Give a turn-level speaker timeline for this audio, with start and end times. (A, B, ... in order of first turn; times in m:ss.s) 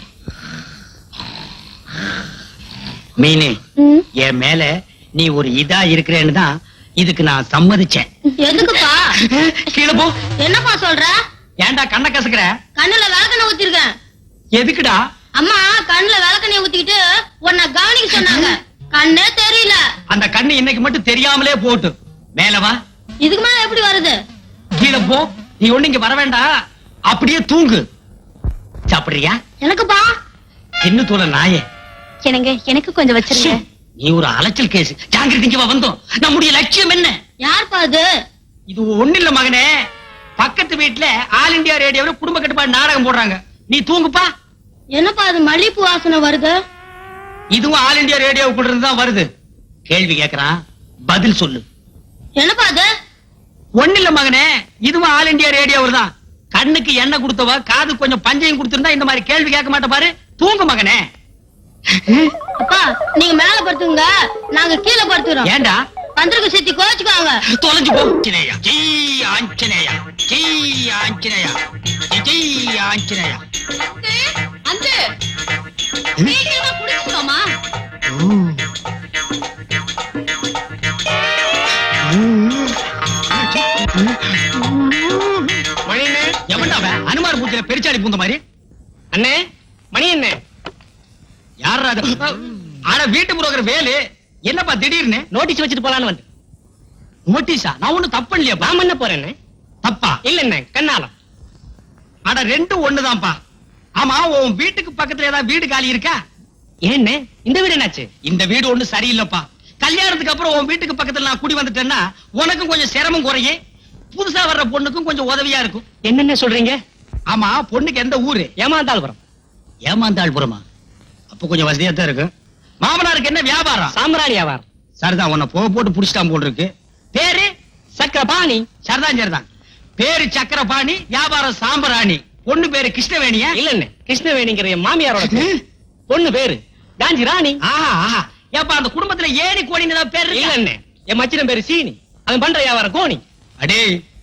0:03.2-0:03.6 A
0:04.2-0:06.5 A
0:07.0-0:08.1 A
0:08.4-0:09.1 B
0:09.2-0:10.1 A
0:10.4-0:11.1 B
0:11.6-0:12.5 A
0:12.8-0:13.9 B
0:14.6-0:15.0 A
0:15.4-0:19.8 B
0:20.1-0:22.8 A
0:23.2-0:24.2 B
0:24.8-0:26.4 A
0:27.1-0:27.8 A
0:28.9-0:29.4 A
0:29.6-0:30.1 B
0:30.8-0:31.6 A
0:32.2-0:33.6 C
0:33.3-0:37.2 A
0:37.4-0:38.0 B
0:38.7-0:39.7 A
0:40.4-0:44.3 A
0:44.9-0:46.6 B
0:47.5-0:49.2 A
0:49.9-0:50.5 A
0:51.1-0:51.6 A
0:52.4-0:52.8 B
0:53.8-1:01.0 A
1:02.0-1:02.3 A
1:02.6-1:05.5 B
1:05.4-1:05.8 A
1:06.2-1:07.4 B
1:07.5-1:11.6 A
1:12.1-1:13.4 A
1:13.8-1:15.0 C
1:16.3-1:17.4 C
1:18.1-1:18.6 A
1:22.0-1:22.8 A
1:23.3-1:24.2 A
1:25.9-1:26.3 D
1:26.5-1:28.4 A
1:29.1-1:29.4 D
1:29.9-1:30.4 D
1:31.6-1:32.4 A
1:32.9-1:35.2 A
1:35.3-1:36.2 D
1:37.3-1:38.7 A
1:38.6-1:39.3 D
1:39.8-1:40.2 A
1:40.2-1:41.1 D
1:42.2-1:43.4 A
1:44.0-1:46.2 A
1:46.9-1:48.1 D
1:48.2-1:53.6 A
1:54.1-1:55.8 A
1:56.0-1:56.8 D
1:57.3-1:58.5 A
1:58.6-1:59.2 D
1:59.9-2:00.6 A
2:01.3-2:02.3 A
2:02.8-2:03.9 A
2:03.9-2:04.6 D
2:05.0-2:06.7 A
2:07.1-2:08.6 D
2:08.8-2:09.4 A
2:10.0-2:13.5 A
2:13.5-2:15.5 D
2:15.2-2:15.5 A
2:16.1-2:17.6 D
2:17.6-2:20.6 A
2:20.3-2:23.2 D
2:23.6-2:23.9 A